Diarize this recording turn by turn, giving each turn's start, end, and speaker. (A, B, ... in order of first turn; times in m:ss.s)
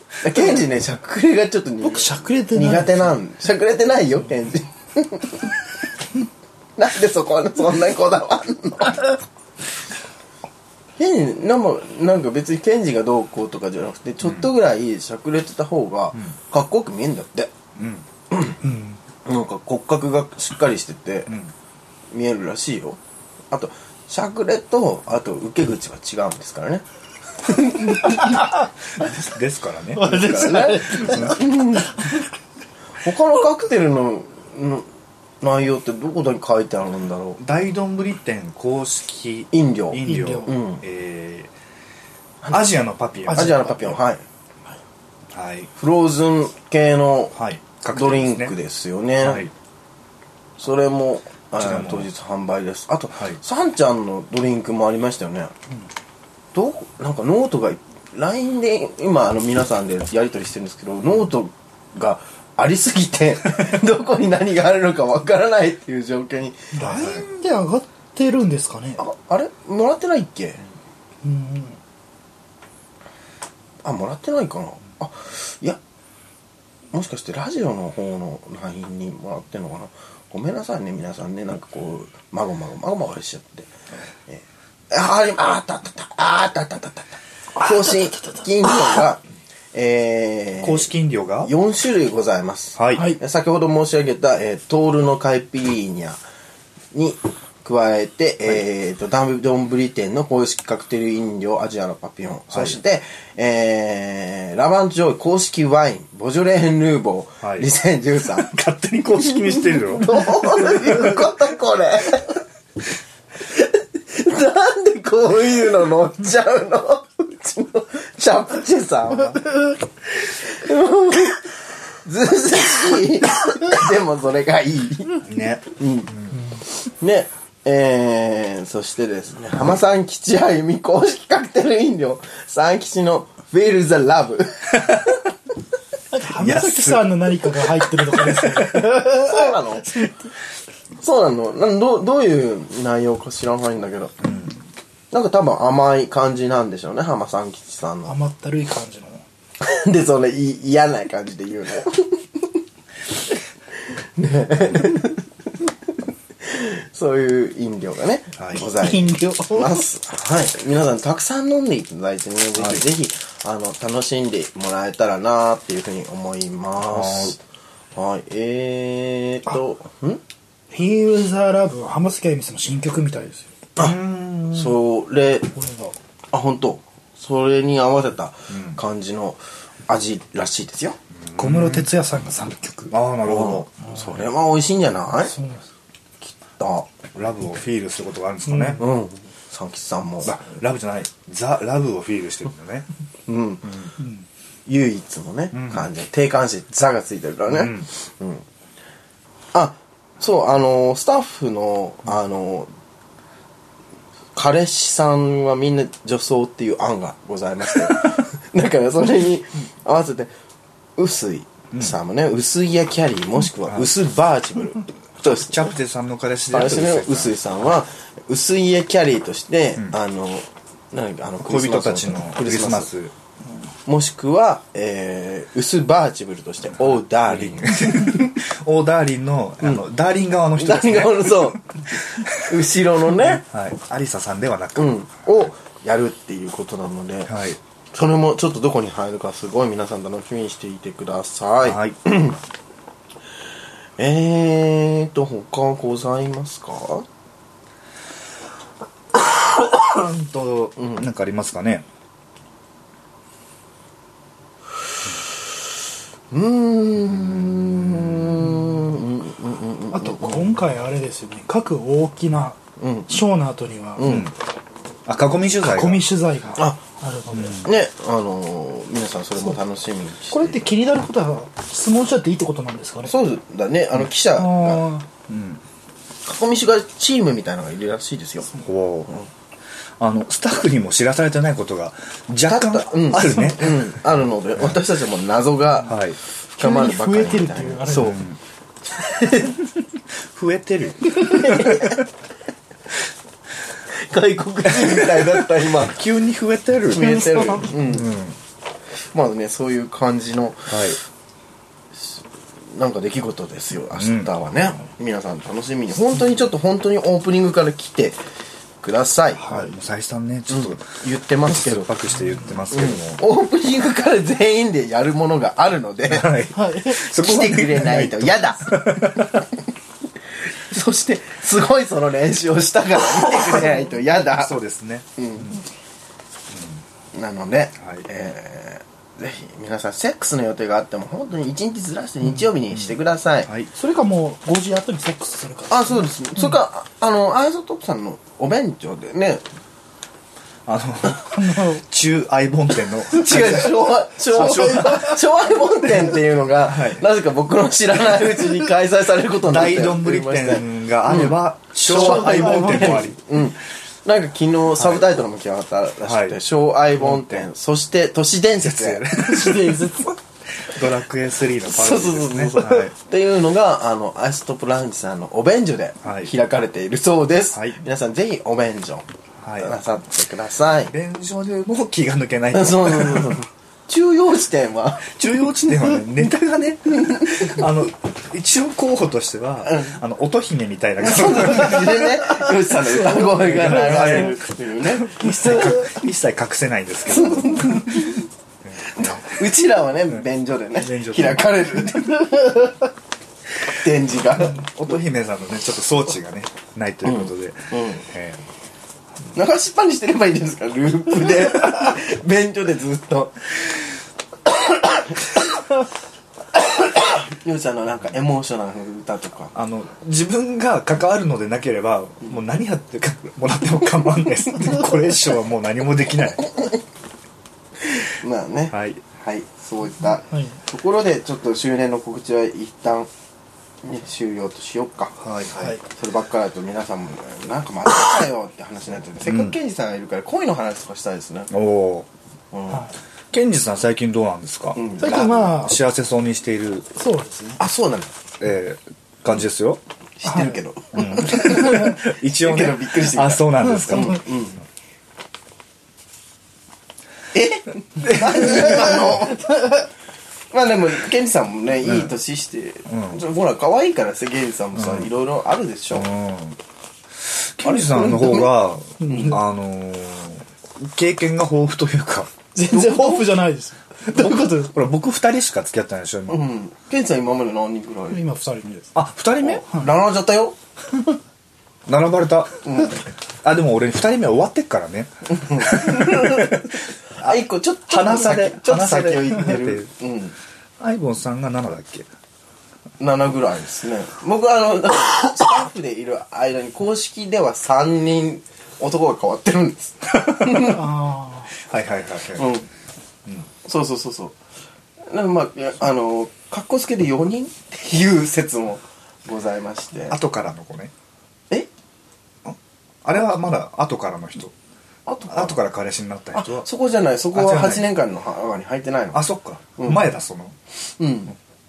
0:00.2-0:05.5 A
0:01.8-0:03.1 B
0:06.8-0:09.2 A
0:11.0-0:17.5 A
0:17.8-0:18.1 C
0:18.3-0:18.6 A
0:18.6-0:19.0 B
0:19.2-0:21.3 A
0:22.1-0:23.0 A
0:23.5-0:26.8 A
0:27.4-0:28.5 A
0:29.0-0:31.4 C
0:30.0-0:31.4 B
0:30.0-0:32.0 A
0:33.0-0:34.9 A
0:35.4-0:37.4 A
0:37.4-0:41.5 C
0:39.5-0:40.8 A
0:40.0-0:40.5 B
0:42.5-0:44.0 C
0:43.3-0:43.8 B
0:43.3-0:44.2 A
0:45.3-0:45.7 C
0:45.8-0:47.4 A
0:47.3-0:48.5 C
0:47.9-0:49.5 A
0:49.2-0:49.5 C
0:50.6-0:55.5 A
0:51.6-0:52.1 C
0:56.5-1:06.7 A
1:06.7-1:09.0 B
1:06.8-1:07.2 C
1:09.0-1:10.6 A
1:11.2-1:11.8 B
1:13.8-1:15.8 A
1:16.9-1:23.7 A
1:24.3-1:29.2 A
1:29.7-1:30.9 A
1:30.6-1:31.5 C
1:31.4-1:36.2 A
1:32.8-1:33.1 C
1:36.9-1:48.5 A
1:42.5-1:42.8 C
1:47.4-1:47.7 C
1:48.3-1:51.2 C
1:49.2-1:52.4 A
1:53.5-2:05.2 A
2:05.2-2:06.4 C
2:05.8-2:06.1 A
2:06.9-2:15.2 A
2:16.1-2:20.1 B
2:16.4-2:17.3 C
2:18.3-2:18.9 C
2:19.0-2:20.1 A
2:21.0-2:24.1 A
2:24.2-2:24.5 C
2:25.1-2:28.2 A
2:28.1-2:29.2 B
2:29.6-2:32.5 A
2:33.9-2:35.2 A
2:36.4-2:47.4 A
2:38.4-2:38.6 C
2:38.7-2:39.8 B
2:42.6-2:42.8 C
2:46.8-2:47.4 C
2:48.0-2:50.2 A
2:50.7-2:53.5 B
2:53.8-2:54.8 C
2:54.5-2:55.5 A
2:55.6-2:55.9 B
2:56.3-3:01.0 A
2:58.5-2:58.8 C
3:01.2-3:01.9 C
3:01.4-3:02.9 B
3:02.9-3:03.7 C
3:03.2-3:05.3 A
3:05.3-3:05.6 B
3:06.3-3:06.9 A
3:07.1-3:08.8 C
3:08.5-3:08.8 B
3:08.8-3:10.4 A
3:10.2-3:12.9 C
3:13.3-3:13.7 A
3:13.6-3:13.9 C
3:14.7-3:18.4 A
3:15.5-3:15.9 C
3:17.5-3:17.9 C
3:19.5-3:22.7 A
3:24.4-3:30.3 A
3:31.0-3:35.7 A
3:35.2-3:37.4 C
3:36.5-3:42.9 A
3:41.4-3:43.1 C
3:43.9-3:48.3 A
3:46.8-3:52.4 C
3:50.6-3:53.4 A
3:53.2-3:55.3 C
3:54.8-3:57.3 A
3:57.3-3:57.6 C
3:57.9-4:02.4 A
4:01.6-4:02.0 C
4:04.0-4:07.1 A
4:09.7-4:11.8 C
4:10.8-4:11.0 A
4:16.3-4:20.5 A
4:17.1-4:18.6 C
4:19.9-4:24.1 B
4:22.8-4:23.1 A
4:24.0-4:24.3 A
4:24.0-4:24.3 C
4:25.1-4:26.1 C
4:25.6-4:27.7 B
4:27.3-4:27.7 C
4:27.6-4:30.7 A
4:30.3-4:33.1 B
4:33.1-4:34.8 A
4:34.4-4:35.1 B
4:35.3-4:35.6 C
4:36.2-4:38.5 A
4:38.6-4:39.1 C
4:40.0-4:44.0 C
4:42.5-4:46.0 A
4:45.8-4:46.2 C
4:46.6-4:48.2 A
4:46.6-4:48.2 B
4:47.9-4:48.4 C
4:49.0-4:49.5 A
4:50.3-4:52.0 C
4:51.2-4:52.0 A
4:53.9-4:56.0 A
4:54.6-4:57.1 C
4:56.9-4:58.1 A
4:57.0-4:57.8 B
4:57.8-4:58.4 C
4:59.1-5:00.8 A
5:00.7-5:01.0 C
5:02.7-5:08.2 A
5:04.0-5:04.3 C
5:08.8-5:09.7 A
5:09.4-5:10.8 C
5:10.5-5:11.9 A
5:11.5-5:13.2 C
5:12.7-5:16.5 A
5:16.1-5:19.4 C
5:16.5-5:17.0 B
5:17.0-5:19.4 A
5:20.7-5:24.6 A
5:24.3-5:25.6 C
5:25.2-5:25.6 A
5:26.5-5:26.8 C
5:27.1-5:33.5 A
5:27.8-5:28.0 C
5:33.5-5:33.7 C
5:33.8-5:36.1 B
5:35.7-5:39.4 A
5:40.7-5:45.2 C
5:41.2-5:41.8 B
5:43.1-6:00.1 A
5:44.5-5:45.1 B
5:46.7-5:47.0 C
5:49.4-5:53.2 C
5:51.9-5:53.1 B
5:54.8-5:55.1 C
5:56.0-5:56.4 C
5:57.0-5:57.5 C
5:58.6-5:59.8 C
5:59.4-6:00.0 B
6:00.6-6:02.9 C
6:01.7-6:09.1 A
6:06.0-6:06.3 C
6:07.5-6:07.8 C
6:09.4-6:09.8 C
6:09.6-6:10.9 A
6:10.9-6:13.4 C
6:12.5-6:15.1 A
6:15.1-6:22.3 C
6:17.1-6:17.4 A
6:19.7-6:20.0 A
6:21.0-6:25.9 A
6:23.0-6:24.4 C
6:25.0-6:29.4 C
6:27.1-6:28.2 A
6:28.8-6:32.7 A
6:30.8-6:32.3 C
6:33.6-6:34.6 A
6:34.4-6:38.4 C
6:37.0-6:38.0 A
6:39.3-6:43.6 A
6:44.7-6:45.2 A
6:46.6-6:49.5 A
6:49.5-6:56.5 C
6:57.9-7:03.1 A
6:58.7-6:59.0 C
7:00.3-7:00.6 B
7:03.8-7:05.2 A
7:05.2-7:05.8 C
7:05.9-7:11.5 A
7:09.2-7:09.6 C
7:11.5-7:12.1 C
7:12.5-7:12.9 A
7:13.3-7:16.9 C
7:14.8-7:15.4 A
7:15.0-7:15.8 B
7:17.0-7:17.6 B
7:17.6-7:18.1 A
7:18.4-7:19.8 C
7:20.2-7:24.6 A
7:20.3-7:20.5 B
7:20.9-7:24.2 C
7:27.3-7:29.8 A
7:30.5-7:36.1 A
7:31.8-7:32.1 C
7:32.9-7:33.2 C
7:34.8-7:35.1 C
7:35.9-7:36.6 C
7:37.2-7:42.3 C
7:37.6-7:38.5 A
7:39.0-7:39.4 B
7:39.1-7:39.3 A
7:42.6-7:44.7 B
7:42.7-7:43.3 A
7:44.1-7:46.5 C
7:46.3-7:48.2 A
7:48.1-7:49.0 B
7:49.0-7:49.6 C
7:49.4-7:50.6 A
7:51.9-7:52.8 C
7:52.6-7:53.0 A
7:53.4-7:56.6 C
7:55.3-8:00.4 A
7:57.9-7:59.9 C
8:00.8-8:02.1 C
8:03.0-8:10.8 A
8:10.2-8:10.7 C
8:10.6-8:11.5 B
8:11.6-8:12.5 C
8:12.4-8:12.7 A
8:13.6-8:14.4 A
8:15.1-8:20.2 A
8:20.1-8:20.9 C
8:22.4-8:24.5 C
8:25.1-8:25.6 A
8:25.3-8:26.7 C
8:26.4-8:29.2 A
8:27.3-8:27.8 C
8:29.1-8:30.6 C
8:29.8-8:30.1 A
8:31.0-8:31.4 A